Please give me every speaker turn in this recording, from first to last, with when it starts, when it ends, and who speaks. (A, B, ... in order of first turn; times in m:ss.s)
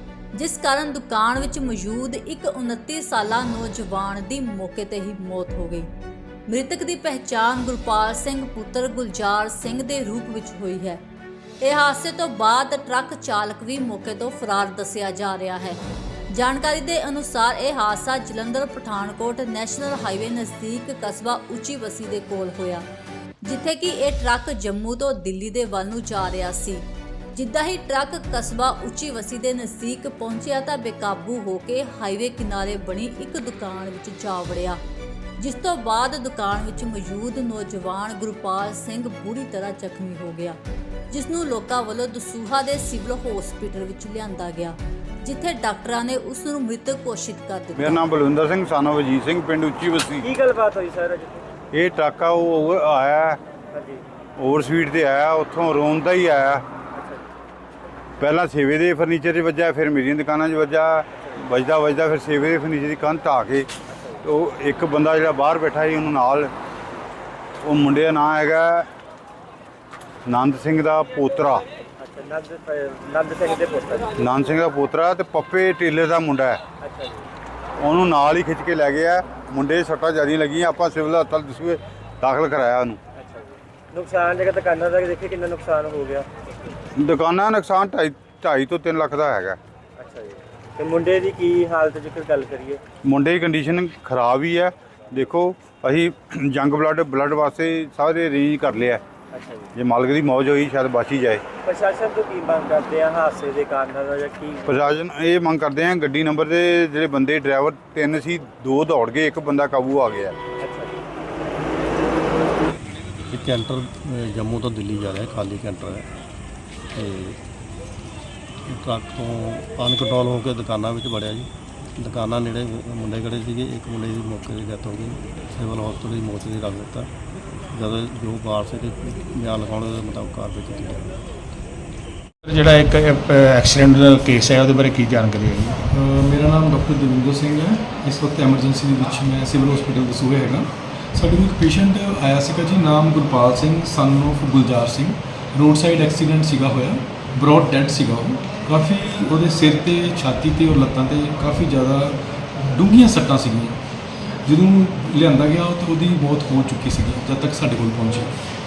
0:00.3-0:05.9 A
0:06.5-0:11.0 A
0:11.6-0:22.8 A
0:23.4-0:34.8 A
0:35.4-0:40.6 A
0:41.1-0:48.0 A
0:47.8-0:50.2 B
0:50.2-0:51.5 C
0:51.7-0:53.4 B
0:53.7-0:54.0 C
0:54.4-0:56.6 B
0:56.9-0:57.4 C
0:58.2-1:03.7 B
1:01.1-1:01.5 C
1:03.9-1:04.2 C
1:04.2-1:06.5 B
1:07.6-1:08.9 B
1:10.2-1:11.6 B
1:12.0-1:14.1 C
1:14.2-1:16.6 B
1:16.8-1:17.3 C
1:17.8-1:23.0 B
1:23.1-1:26.7 C
1:26.9-1:29.6 B
1:30.0-1:32.8 C
1:33.0-1:39.0 B
1:39.3-1:39.7 C
1:39.7-1:41.4 B
1:41.6-1:44.9 C
1:44.7-1:50.4 B
1:50.6-1:51.0 C
1:53.3-1:56.1 D
1:56.9-1:57.4 D
1:58.7-2:07.1 D
2:07.7-2:11.2 D
2:12.4-2:15.8 E
2:15.9-2:33.8 F
2:34.4-2:38.3 F